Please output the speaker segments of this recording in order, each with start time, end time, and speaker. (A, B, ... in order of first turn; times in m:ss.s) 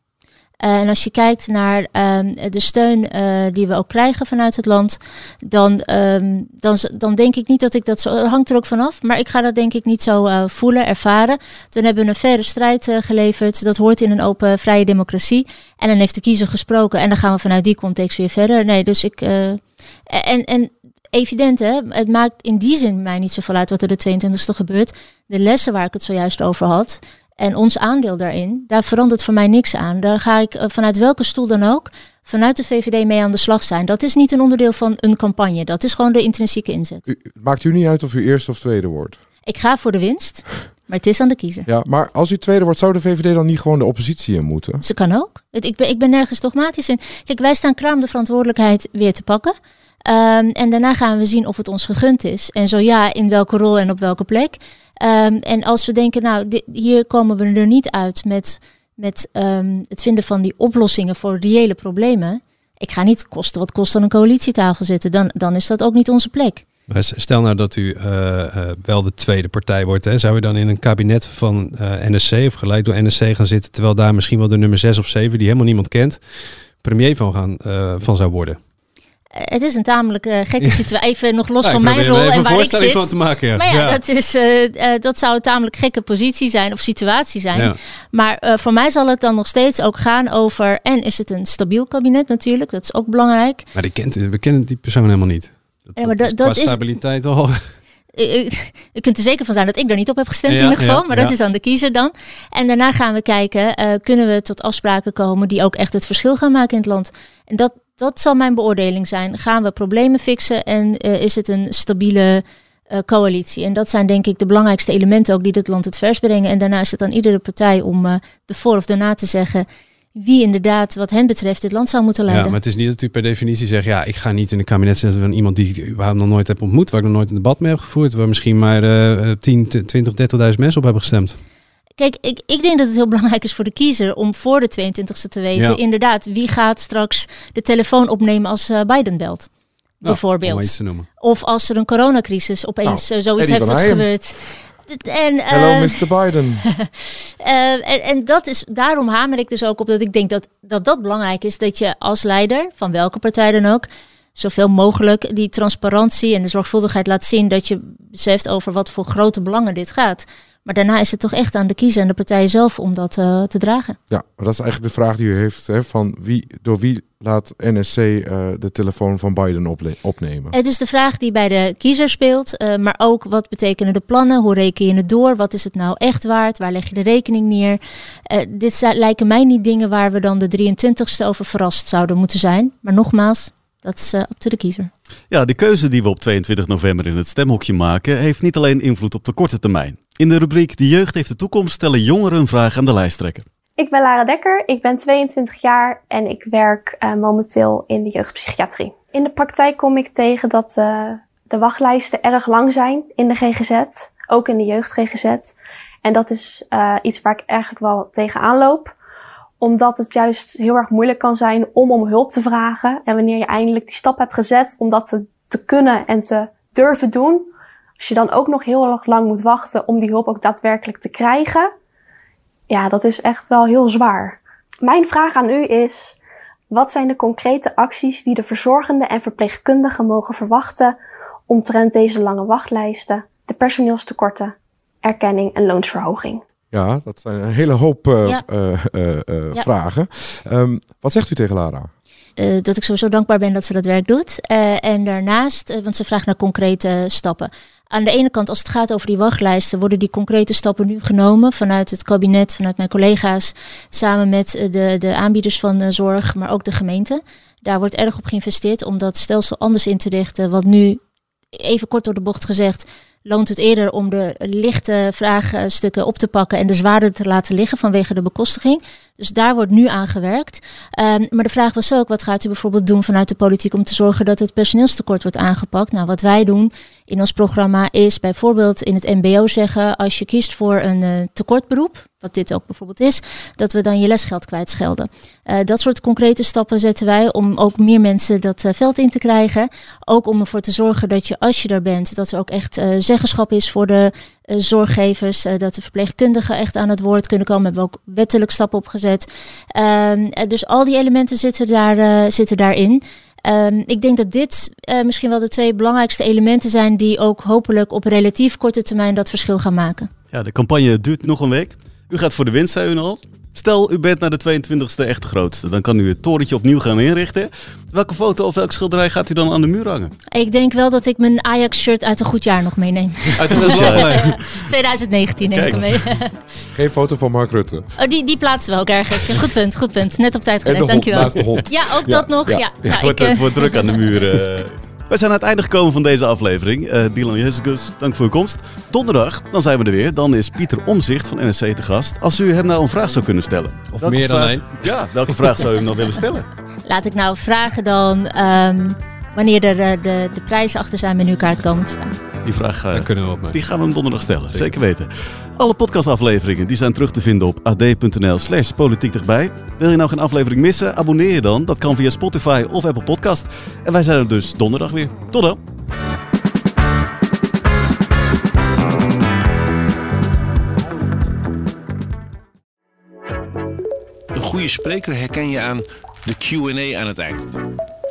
0:00.6-0:37.0 A
0:37.1-0:39.2 B
0:39.4-0:41.7 A
0:41.7-0:44.8 B
0:44.8-0:49.5 A
0:50.0-1:06.6 A
1:06.9-1:16.2 C
1:16.8-1:18.6 C
1:19.4-1:33.7 A
1:20.6-1:20.8 C
1:21.6-1:24.0 C
1:33.7-1:37.7 C
1:36.0-1:36.8 A
1:38.2-2:02.6 A
1:40.4-1:41.3 C
2:02.3-2:11.4 C
2:12.0-2:19.5 A
2:15.5-2:15.8 C
2:20.0-2:26.0 A
2:20.0-2:21.1 C
2:22.8-2:24.1 B
2:25.5-2:26.6 B
2:27.4-2:44.0 A
2:44.1-2:50.5 B
2:50.5-3:04.9 A
3:05.3-3:13.4 D
3:13.8-3:28.9 E
3:29.6-3:37.5 E
3:38.0-3:41.7 E
3:42.7-3:46.2 E
3:46.7-3:50.9 E
3:51.5-3:54.5 E
3:55.0-3:56.4 E
3:56.7-4:01.9 B
4:02.4-4:21.0 A
4:21.6-5:10.1 A
5:10.3-5:20.1 D
5:20.3-5:26.4 A
5:23.3-5:24.4 C
5:23.4-5:24.4 D
5:25.5-5:25.8 D
5:26.7-5:27.9 B
5:28.0-5:33.8 A
5:30.6-5:32.9 B
5:32.8-5:46.5 D
5:43.9-5:45.7 C
5:46.9-5:52.1 A
5:52.4-6:05.6 D
5:52.9-5:53.6 C
6:14.3-6:17.4 F